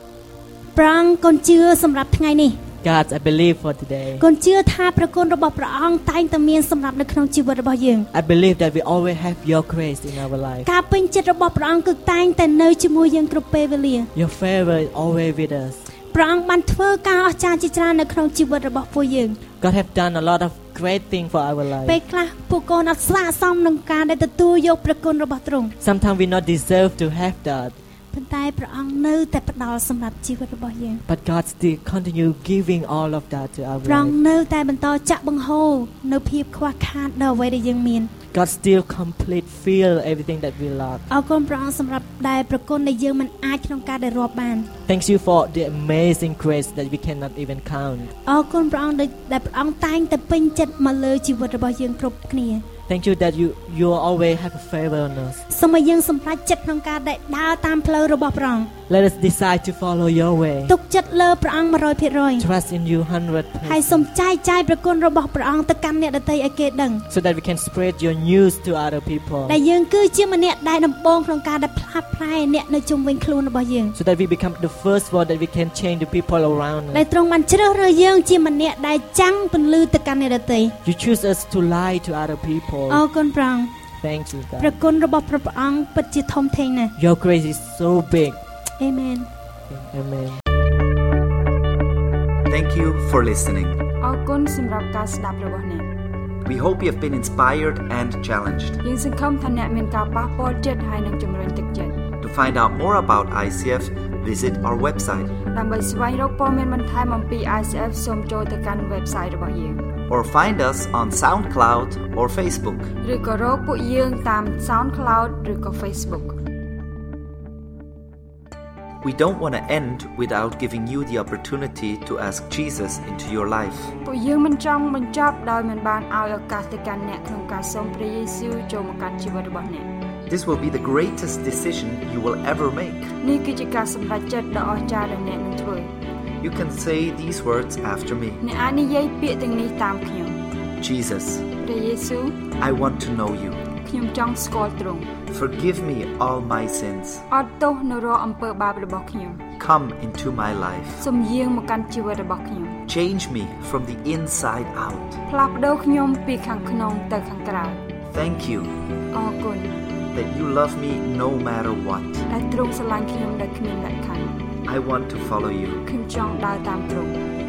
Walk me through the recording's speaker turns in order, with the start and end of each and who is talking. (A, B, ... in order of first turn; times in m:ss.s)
0:00.8-0:02.6 A
0:02.8-0:04.2 B
0:04.2-0:08.1 A
0:08.1-0:10.7 B
0:10.6-0:14.1 A
0:14.1-0:15.8 B
0:16.1-0:19.4 A
0:19.6-0:22.0 B
0:21.8-0:25.7 A
0:25.8-0:27.8 B
0:28.1-0:31.0 A
0:31.0-0:34.2 B
0:33.8-0:38.1 A
0:38.3-0:41.0 B
0:41.1-0:44.7 A
0:44.9-0:48.1 B
0:48.2-0:52.6 A
0:52.9-0:55.4 B
0:55.5-0:58.7 A
0:58.9-1:00.7 B
1:00.7-1:02.4 A
1:02.4-1:04.0 B
1:03.6-1:07.0 A
1:07.1-1:09.6 B
1:09.5-1:14.0 A
1:13.9-1:17.0 B
1:16.9-1:20.7 A
1:20.8-1:23.0 B
1:22.9-1:23.7 A
1:24.0-1:24.8 B
1:24.6-1:26.9 A
1:27.0-1:28.4 B
1:28.8-1:29.3 A
1:29.7-1:30.4 B
1:32.5-1:33.8 C
1:34.0-1:35.9 D
1:36.4-1:38.8 C
1:38.8-1:42.0 D
1:42.2-1:45.4 C
1:45.4-1:49.8 D
1:50.1-1:52.9 C
1:53.0-1:56.4 D
1:59.0-2:03.9 C
2:04.0-2:09.9 D
2:10.3-2:13.1 C
2:13.2-2:15.9 D
2:16.4-2:18.4 C
2:18.4-2:20.4 D
2:20.8-2:21.5 C
2:21.6-2:22.5 D
2:22.6-2:23.6 C
2:23.8-2:25.1 D
2:25.3-2:27.2 C
2:27.3-2:29.4 D
2:29.6-2:31.0 C
2:31.0-2:32.8 D
2:32.9-2:35.2 C
2:35.3-2:37.8 D
2:38.1-2:38.7 C
2:39.1-2:39.7 D
2:40.1-2:42.3 C
2:42.3-2:44.3 D
2:44.6-2:45.8 C
2:45.8-2:47.1 D